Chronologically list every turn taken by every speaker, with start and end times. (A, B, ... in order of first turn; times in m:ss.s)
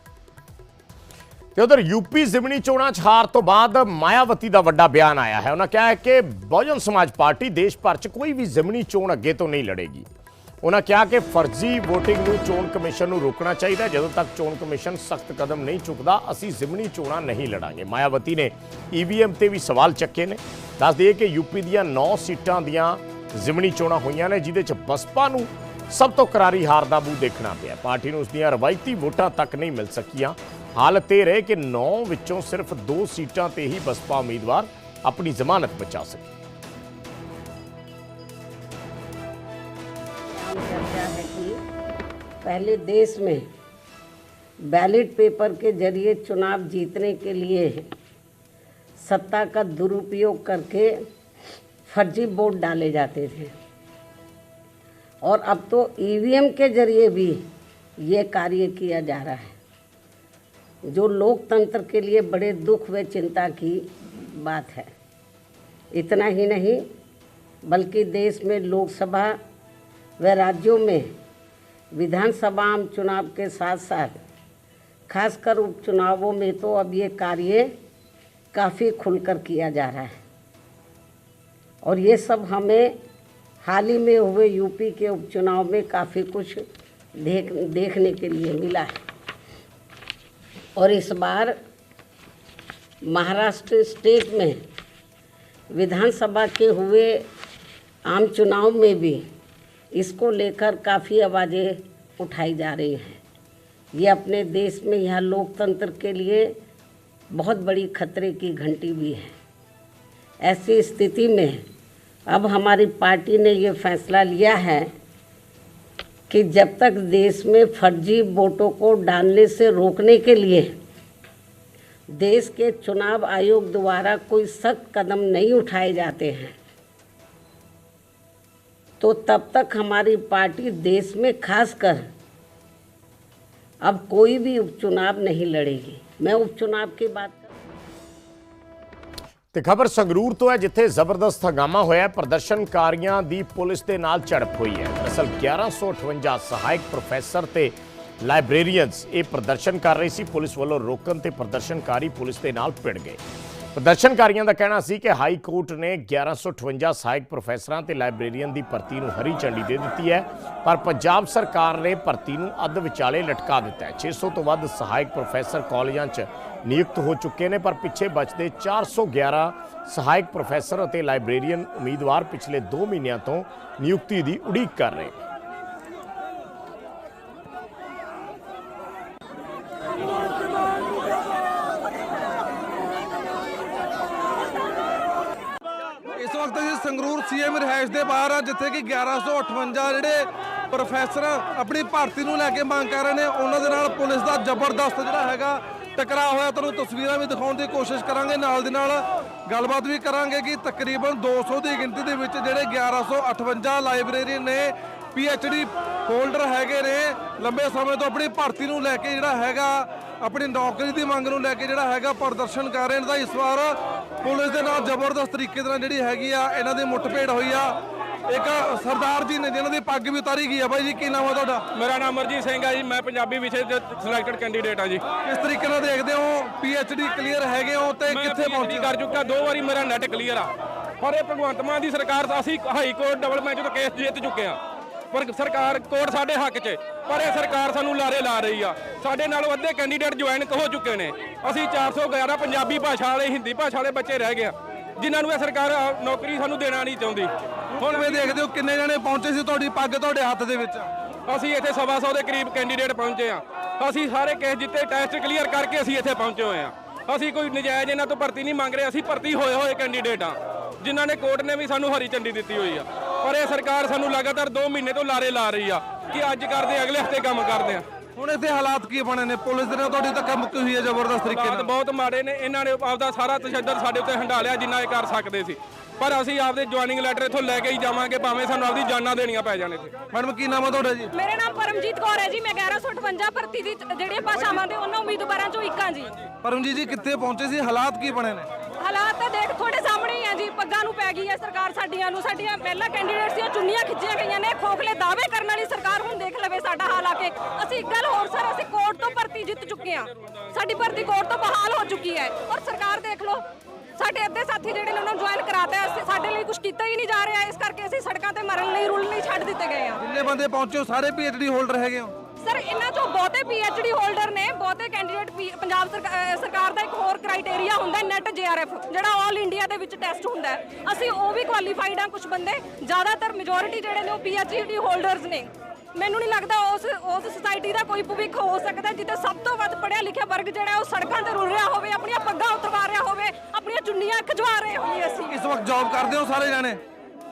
0:01.6-0:10.1 A
0:10.6-0:36.4 A
0:40.2-0:41.6 B
0:42.4-0:43.5 B
0:44.7-0:47.8 B
0:49.0-0:50.9 B
0:51.9-0:53.5 B
0:55.2-0:57.4 B
0:58.0-0:59.5 B
1:00.9-1:04.9 B
1:05.9-1:06.8 B
1:07.6-1:09.4 B
1:10.2-1:11.1 B
1:11.9-1:14.1 B
1:15.1-1:17.7 B
1:18.5-1:20.2 B
1:21.8-1:23.0 B
1:23.6-1:26.6 B
1:27.2-1:28.9 B
1:30.8-1:31.6 B
1:33.1-1:34.6 B
1:35.8-1:37.2 B
1:38.1-1:39.2 B
1:39.9-1:43.2 B
1:44.0-1:46.5 B
1:47.3-1:49.3 B
1:50.4-1:51.6 B
1:52.3-1:54.9 B
1:56.3-2:00.7 B
2:02.1-2:06.5 B
2:09.0-2:12.1 B
2:13.8-2:17.5 B
2:19.5-2:33.2 A
2:33.8-2:55.2 A
3:06.2-3:37.7 C
3:38.3-3:41.6 C
3:41.7-3:45.0 D
3:45.2-3:48.9 C
3:48.1-3:50.5 D
3:51.0-3:54.6 D
3:55.1-4:07.3 D
4:07.8-4:10.9 C
4:07.8-4:08.1 D
4:11.3-4:27.8 D
4:28.2-4:31.7 C
4:31.3-4:39.9 D
4:40.1-4:41.1 C
4:41.1-4:46.2 E
4:46.4-4:48.5 C
4:48.8-5:03.4 E
5:04.0-5:10.0 E
5:10.0-5:12.2 C
5:12.4-5:35.3 E
5:35.3-5:36.8 C